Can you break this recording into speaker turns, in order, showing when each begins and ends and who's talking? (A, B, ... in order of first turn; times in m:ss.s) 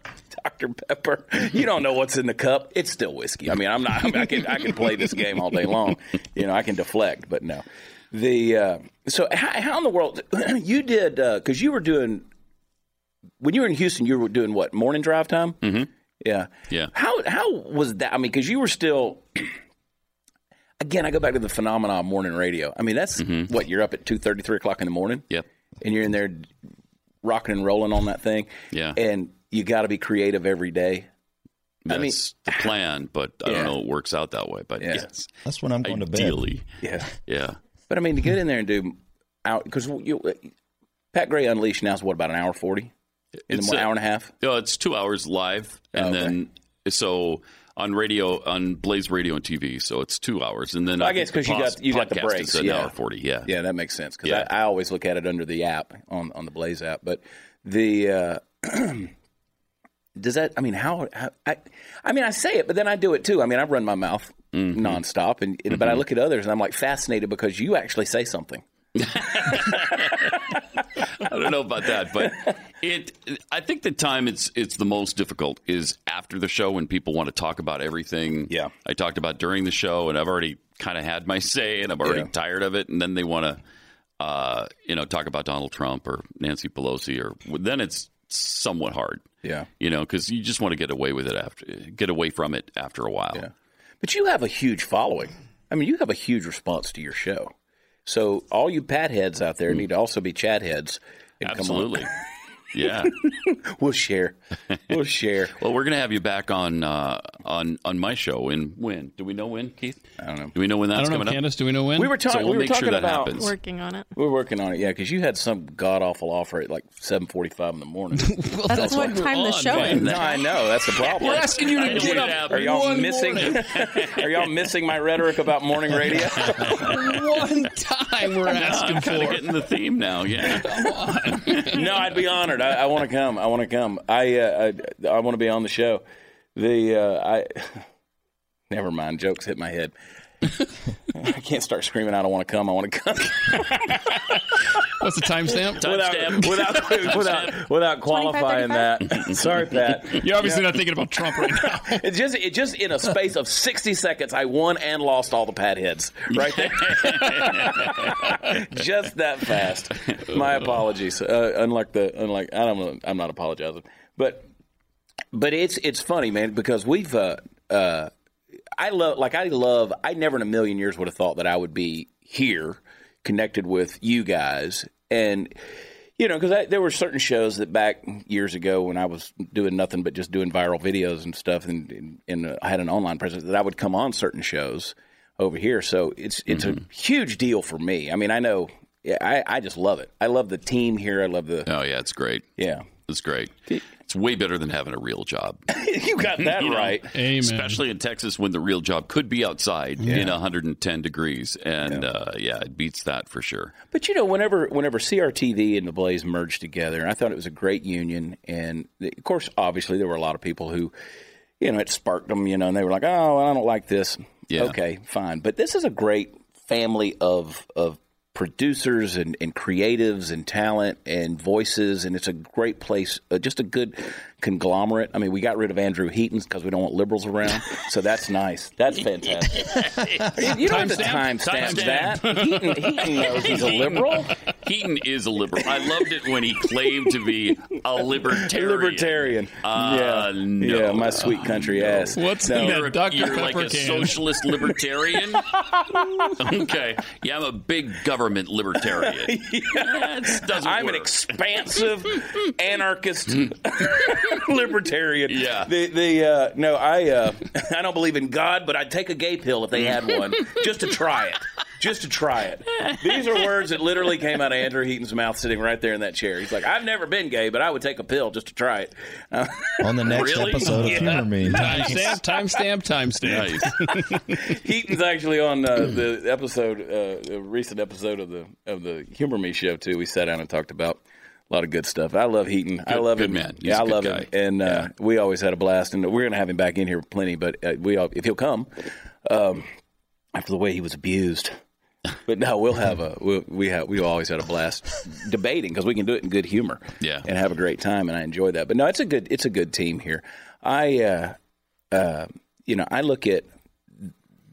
0:00.3-0:12.3 A
0:13.4-0:15.6 A
0:15.6-0:15.9 B
0:16.2-0:19.6 A
0:20.8-0:25.2 A
0:23.2-0:23.5 B
0:25.8-0:26.5 A
0:27.2-0:31.1 A
0:28.7-0:29.0 B
0:31.9-0:35.3 B
0:31.9-0:32.7 A
0:33.4-0:33.7 A
0:34.8-0:35.1 A
0:35.4-0:36.4 C
0:35.8-0:36.7 B
0:36.8-0:37.1 A
0:37.2-0:37.6 B
0:37.9-0:40.5 A
0:41.1-0:42.9 A
0:43.5-0:43.9 B
0:43.5-0:44.3 A
0:44.4-0:53.5 B
0:45.9-0:46.4 A
0:51.0-0:52.9 A
0:53.4-0:59.1 A
1:00.2-1:08.6 A
1:04.5-1:05.0 B
1:09.0-1:23.6 B
1:09.4-1:10.4 A
1:22.0-1:22.3 A
1:24.2-1:29.3 B
1:29.4-1:29.7 A
1:29.8-1:33.4 B
1:34.0-1:37.5 A
1:38.1-1:42.2 A
1:41.4-1:42.1 B
1:42.7-1:43.2 B
1:43.0-1:45.6 A
1:45.6-1:50.0 B
1:50.2-1:50.5 A
1:50.5-1:51.4 B
1:50.9-1:52.2 D
1:52.0-1:53.5 A
1:52.2-1:53.5 B
1:53.4-1:54.1 E
1:54.1-2:07.0 A
1:58.2-2:00.4 D
1:58.7-2:00.4 E
2:01.0-2:03.9 D
2:01.2-2:03.0 B
2:03.8-2:04.1 B
2:06.3-2:09.5 D
2:08.4-2:10.8 B
2:10.4-2:12.0 D
2:11.7-2:16.0 A
2:16.6-2:17.8 A
2:18.7-2:19.9 A
2:21.1-2:24.8 A
2:25.0-2:25.9 D
2:25.7-2:30.7 A
2:25.8-2:27.6 B
2:28.1-2:29.4 E
2:30.1-2:32.0 D
2:31.6-2:44.4 A
2:36.6-2:38.1 B
2:45.3-2:48.1 A
2:48.8-2:55.5 A
2:56.2-3:11.7 A
3:11.6-3:15.6 B
3:12.6-3:12.9 A
3:15.7-3:17.1 A
3:16.4-3:23.7 B
3:17.1-3:17.8 D
3:20.0-3:20.3 D
3:20.1-3:20.4 A
3:23.9-3:30.9 A
3:31.6-3:54.4 A
3:34.5-3:34.8 B
3:49.7-3:50.3 B
3:50.3-3:54.2 D
3:51.4-3:52.2 B
3:53.3-4:05.5 B
3:58.2-4:02.8 A
4:02.1-4:04.8 D
4:05.5-4:06.4 A
4:06.4-4:11.3 B
4:08.9-4:32.6 A
4:15.3-4:15.7 B
4:29.8-4:32.0 C
4:30.1-4:31.2 B
4:30.8-4:34.4 D
4:33.2-4:33.8 B
4:33.3-4:33.6 A
4:34.3-4:49.7 A
4:42.9-4:44.8 B
4:50.3-4:51.6 A
4:52.2-5:01.4 A
4:57.0-4:57.2 B
5:01.9-5:03.5 A